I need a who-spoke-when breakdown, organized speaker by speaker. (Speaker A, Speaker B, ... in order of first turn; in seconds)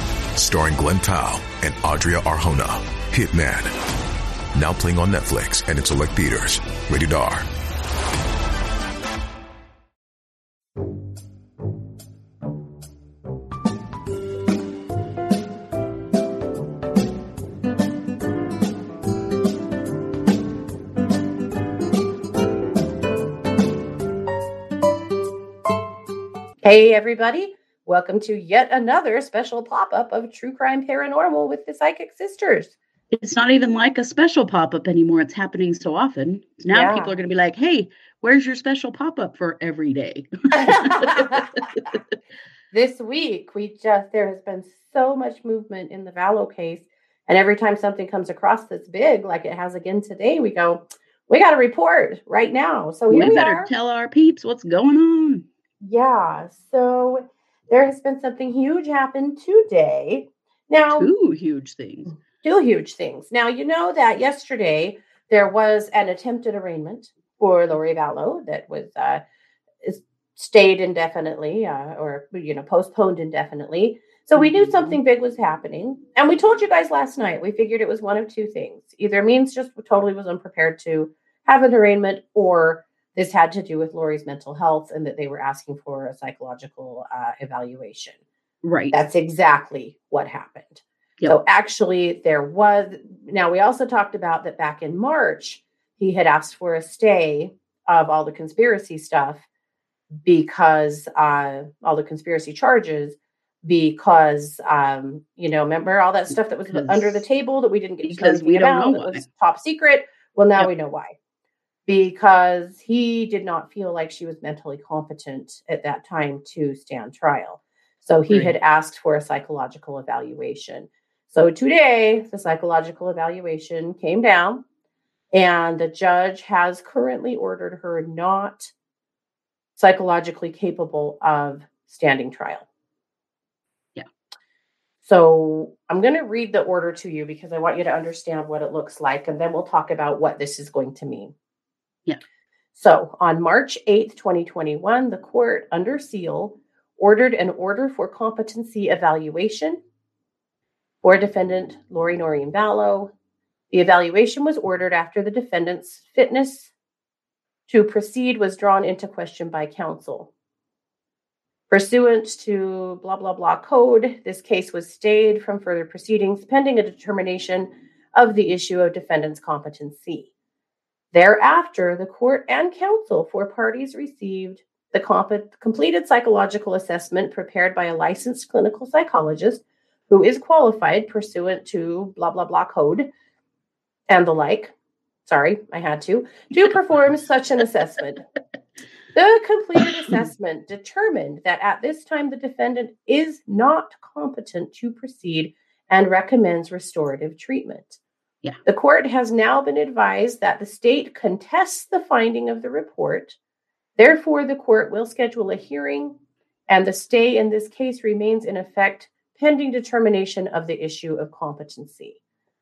Speaker A: 0.3-3.7, 4.5-7.5
Speaker B: 26.6-32.7, 36.7-37.1, 40.5-41.5, 42.7-53.7, 55.8-61.1, 62.4-69.2, 69.8-88.2, 88.9-99.4, 100.2-111.2, 111.9-124.6, 125.3-128.7, 129.8-132.7, 135.0-141.3, 142.7-149.8, 151.0-153.1, 153.7-156.7, 157.7-160.3, 161.7-170.3, 171.1-183.1, 184.1-184.7, 185.2-188.2, 189.1-198.0, 198.6-203.4, 204.0-206.2, 206.7-212.2
Speaker C: 33.1-42.0, 53.1-55.5, 60.9-62.1, 74.4-75.0, 88.6-89.0, 106.7-107.2, 108.0-109.2